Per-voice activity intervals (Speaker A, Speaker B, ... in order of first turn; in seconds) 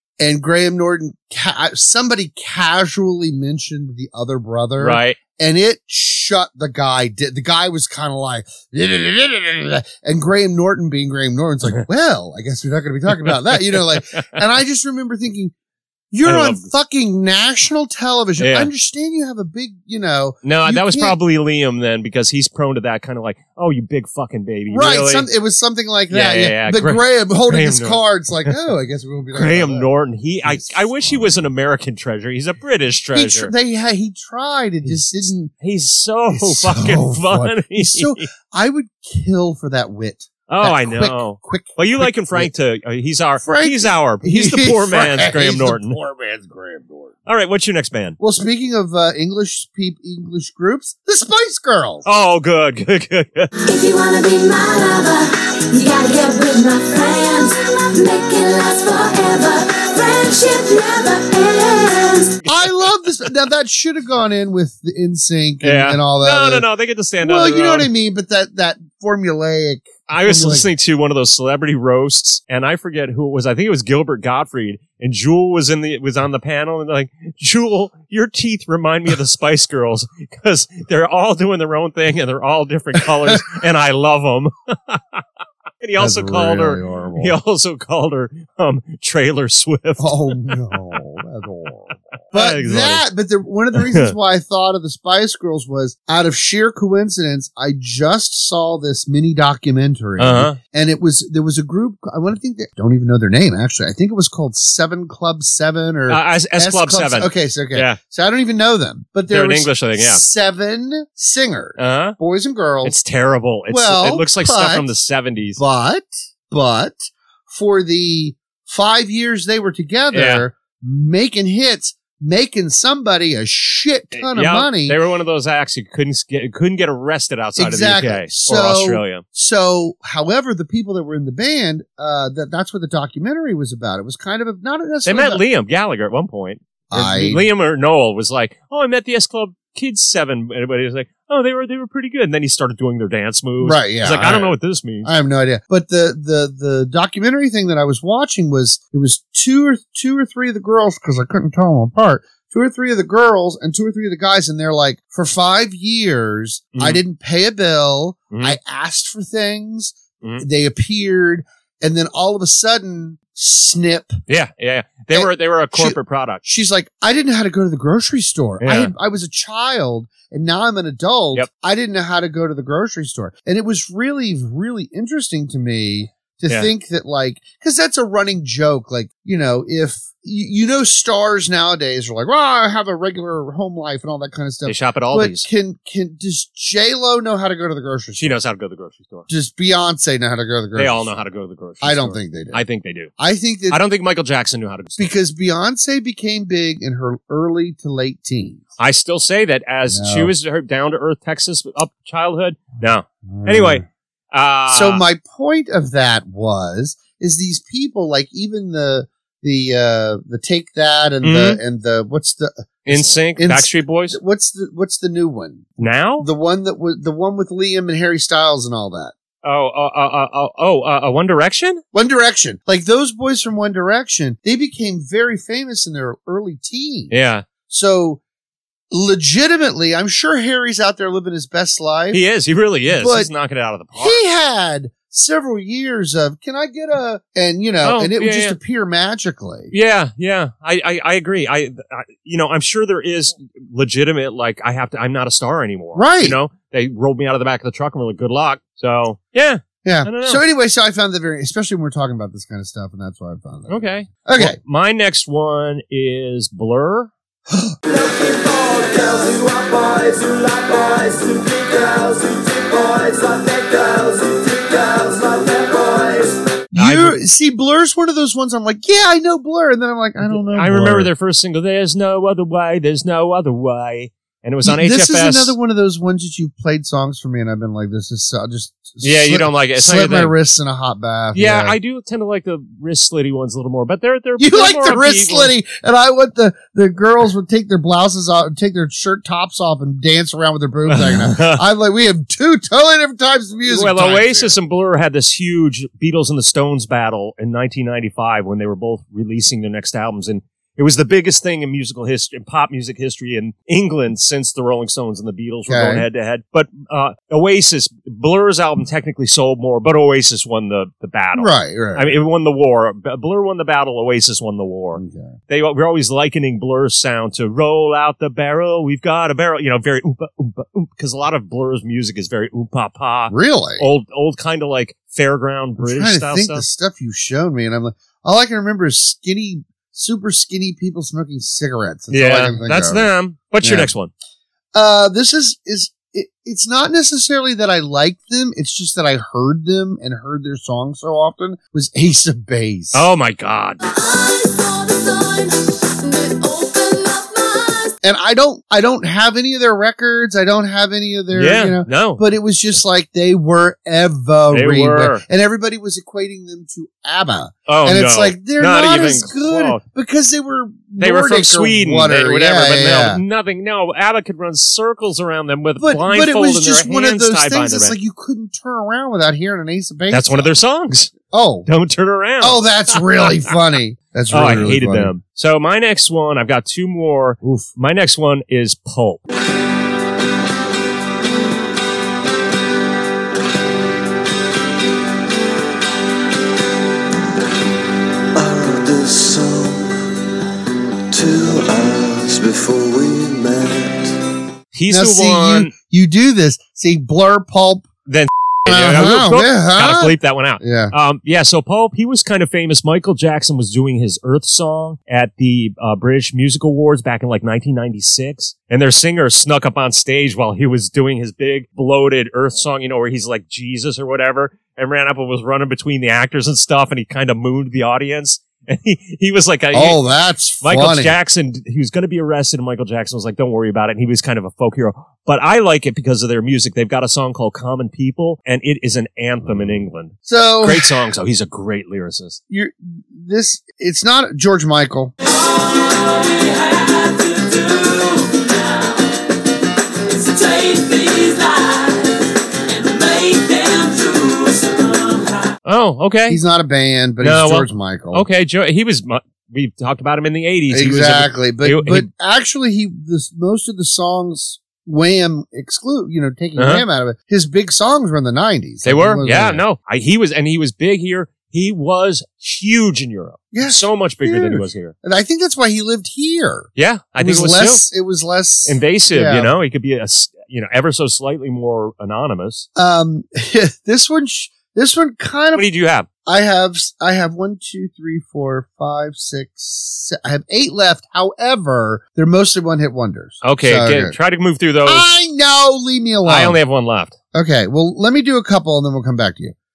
Speaker A: 0.2-15.5, 16.1-21.2, 24.7-29.9, 30.4-31.4, 33.1-35.5, 36.3-42.5, 43.4-47.1, 48.2-52.0, 62.5-66.7, 67.2-70.7, 83.0-83.4, 86.0-87.3, 90.0-113.0, 113.7-114.9, 115.6-125.0, 127.6-135.4, 136.9-137.4, 143.6-164.2, 165.1-188.3, 189.3-191.1, 191.8-192.6, 193.2-193.8, 195.0-198.6, 199.9-200.3, 203.3-203.8, 204.7-219.1, 221.9-227.1, 227.7-228.2, 228.9-232.2, 232.9-233.3, 233.9-239.7, 245.9-246.4, 249.8-254.6, 266.7-271.1, 274.6-281.8, 284.4-294.6, 305.7-306.0, 311.3-312.2, 314.9-315.3, 323.3-323.8, 325.8-333.1, 333.6-333.9, 334.7-343.1, 348.0-363.2, 365.8-370.5, 371.3-371.7, 372.4-375.1, 377.4-377.7, 394.9-397.9, 398.6-400.9, 419.7-421.1, 429.4-430.9, 432.5-435.1, 446.3-448.2, 450.7-459.6, 463.5-469.6, 472.8-475.6, 476.2-484.1, 484.8-486.6, 487.3-489.5
Speaker B: 4.8-5.2, 13.2-14.2, 16.2-16.7, 18.4-18.7, 20.4-25.3, 26.1-28.6, 29.3-33.5, 35.6-38.3, 40.5-46.0, 47.2-48.2, 52.0-53.5, 62.4-62.9, 65.6-67.9, 70.1-85.2, 85.8-91.0, 92.3-93.0, 93.7-94.1, 100.2-100.6, 106.1-108.0, 109.3-110.2, 111.8-112.2, 112.8-115.6, 120.1-120.4, 124.1-129.2, 135.0-145.1, 156.7-157.0, 158.3-158.6, 164.3-166.4, 168.6-168.9, 184.7-185.5, 188.2-189.3, 190.8-193.1, 193.7-195.1, 198.8-205.0, 211.2-211.6, 212.8-214.2, 215.8-216.3, 219.4-221.8, 227.1-227.4, 232.1-234.2, 237.8-238.6, 239.7-250.4, 253.7-257.1, 266.8-267.2, 270.2-275.6, 279.0-280.3, 281.3-285.5, 290.9-291.6, 293.7-326.6, 332.1-334.1, 342.9-343.8, 351.3-352.3, 354.5-355.2, 357.7-359.8, 361.0-368.0, 370.1-373.5, 374.3-379.2, 394.7-395.7, 398.1-420.0, 420.6-432.4, 445.6-446.4, 447.2-452.1, 456.6-456.8, 458.8-464.9, 466.8-467.8, 468.6-472.7, 475.5-476.1, 483.4-485.1, 486.2-487.1
Speaker C: 53.6-62.4, 343.8-347.9
Speaker D: 257.9-266.6, 435.4-438.9, 440.1-442.1, 442.7-445.5
Speaker E: 388.4-389.9, 391.1-393.9